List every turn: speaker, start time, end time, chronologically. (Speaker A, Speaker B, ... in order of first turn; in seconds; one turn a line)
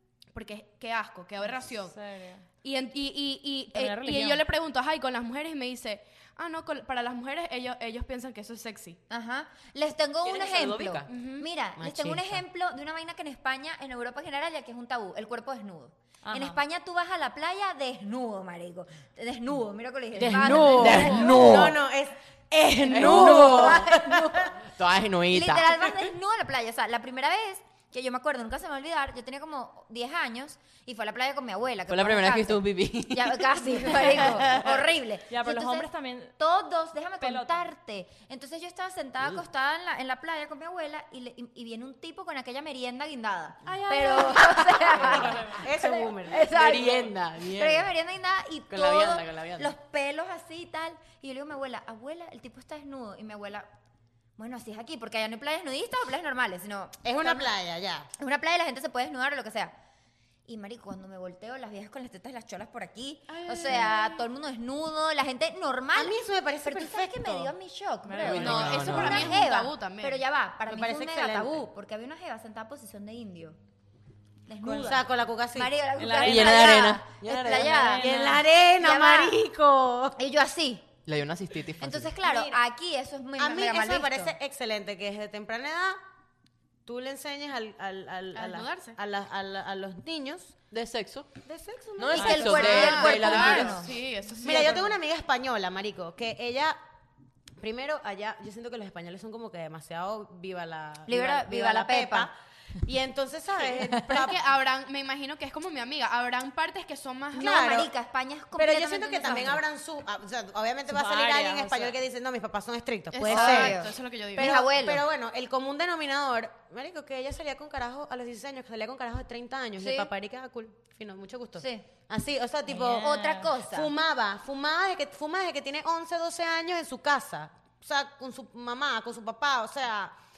Speaker A: 0.3-1.9
Speaker B: 1.9-2.4
Speaker A: 2.6-9.0
Speaker B: 3.7-4.4
Speaker C: 9.1-21.8
Speaker D: 10.2-11.1
Speaker A: 11.1-11.5
Speaker E: 11.8-12.4
Speaker B: 16.2-16.6
Speaker E: 20.1-24.6
Speaker D: 20.2-21.7
Speaker A: 20.4-21.4
Speaker D: 22.9-23.9
Speaker C: 22.9-24.6
Speaker D: 24.7-25.8
Speaker C: 25.3-53.7
Speaker D: 31.9-34.3
Speaker B: 35.3-36.3
Speaker B: 37.2-37.6
Speaker A: 43.6-44.6
Speaker D: 44.4-44.7
Speaker E: 45.0-47.1
Speaker B: 45.0-45.6
Speaker D: 46.4-47.9
Speaker D: 48.7-49.7
Speaker C: 54.4-57.5
Speaker E: 57.0-58.1
Speaker C: 58.2-59.8
Speaker C: 60.5-73.6
Speaker A: 63.3-64.2
Speaker E: 63.6-63.9
Speaker E: 65.9-67.5
Speaker B: 68.0-69.1
Speaker D: 68.2-69.3
Speaker A: 68.3-70.2
Speaker E: 70.7-71.6
Speaker C: 74.5-79.4
Speaker E: 74.6-75.7
Speaker B: 76.0-78.4
Speaker D: 76.2-77.8
Speaker E: 77.8-80.2
Speaker C: 80.2-80.9
Speaker D: 81.0-82.2
Speaker C: 81.8-84.3
Speaker A: 82.2-82.5
Speaker E: 83.4-86.0
Speaker E: 86.8-90.6
Speaker A: 88.3-89.0
Speaker D: 90.7-91.3
Speaker E: 91.4-93.7
Speaker D: 92.0-93.8
Speaker C: 92.1-93.9
Speaker A: 92.6-95.0
Speaker E: 94.4-96.8
Speaker E: 97.6-104.5
Speaker C: 101.0-102.3
Speaker A: 103.8-107.7
Speaker C: 107.3-109.6
Speaker E: 107.4-107.9
Speaker E: 108.5-130.1
Speaker B: 110.9-112.0
Speaker A: 113.1-114.6
Speaker C: 113.3-115.0
Speaker C: 119.8-120.1
Speaker C: 121.6-121.9
Speaker B: 122.7-123.5
Speaker C: 122.8-123.9